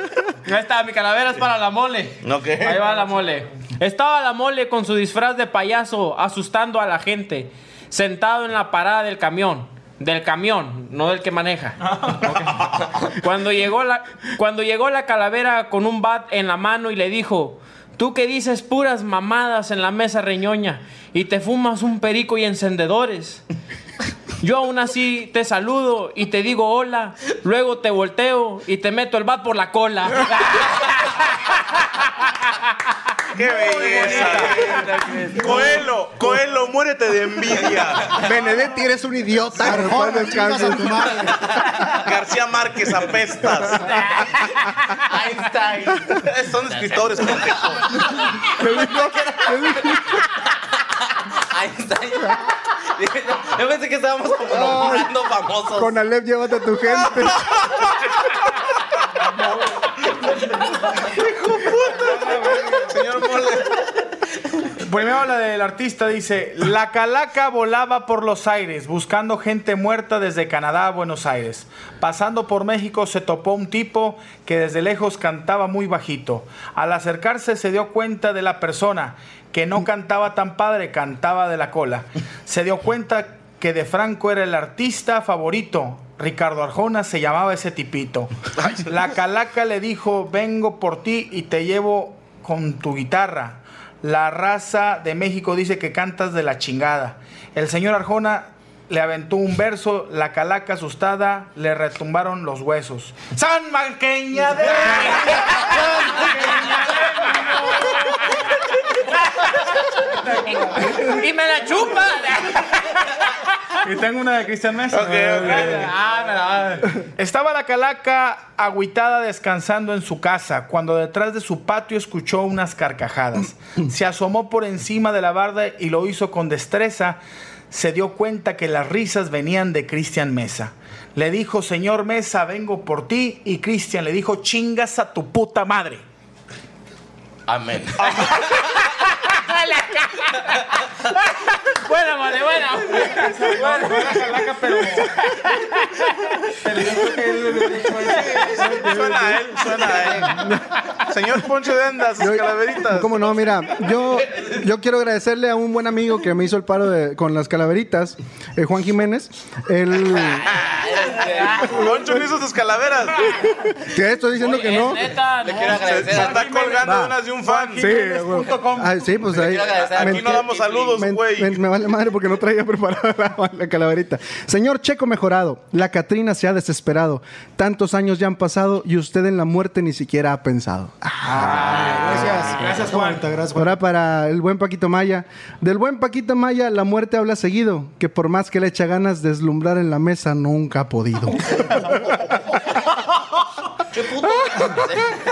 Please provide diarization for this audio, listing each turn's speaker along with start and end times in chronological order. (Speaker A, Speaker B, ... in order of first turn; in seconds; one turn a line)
Speaker A: 0.4-23.4
Speaker B: 2.2-2.9
Speaker A: 24.4-31.5
Speaker B: 33.3-38.2
Speaker C: 33.7-35.8
Speaker D: 33.8-34.5
Speaker E: 38.1-42.0
Speaker F: 39.6-41.3
Speaker B: 41.9-43.9
Speaker A: 43.9-44.2
Speaker C: 45.0-47.7
Speaker B: 46.2-47.8
Speaker E: 48.5-50.2
Speaker C: 48.8-49.5
Speaker C: 51.5-52.4
Speaker C: 52.9-56.0
Speaker E: 54.5-55.1
Speaker E: 55.8-57.5
Speaker B: 60.9-63.8
Speaker D: 64.8-88.3
Speaker B: 88.6-88.9
Speaker D: 88.8-107.9
Speaker A: 105.2-108.3
Speaker A: 109.5-113.3
Speaker D: 113.8-115.8
Speaker B: 114.9-116.0
Speaker A: 115.3-116.9
Speaker D: 117.2-127.2
Speaker D: 127.7-136.0
Speaker C: 137.5-138.5
Speaker A: 139.2-146.2
Speaker D: 143.0-145.1
Speaker D: 146.6-148.4
Speaker B: 148.0-153.5
Speaker E: 148.4-149.5
Speaker E: 150.1-150.8
Speaker E: 152.2-160.5
Speaker C: 160.4-161.7
Speaker A: 161.5-161.9
Speaker B: 161.6-163.4
Speaker E: 163.6-165.1
Speaker A: 164.3-166.0
Speaker C: 165.4-166.6
Speaker B: 165.5-168.0
Speaker D: 166.0-169.0
Speaker E: 166.8-167.1
Speaker E: 167.8-182.7
Speaker C: 169.2-171.0
Speaker B: 169.5-171.6
Speaker D: 181.2-183.3
Speaker F: 181.3-183.8
Speaker E: 183.5-192.0
Speaker C: 193.9-195.1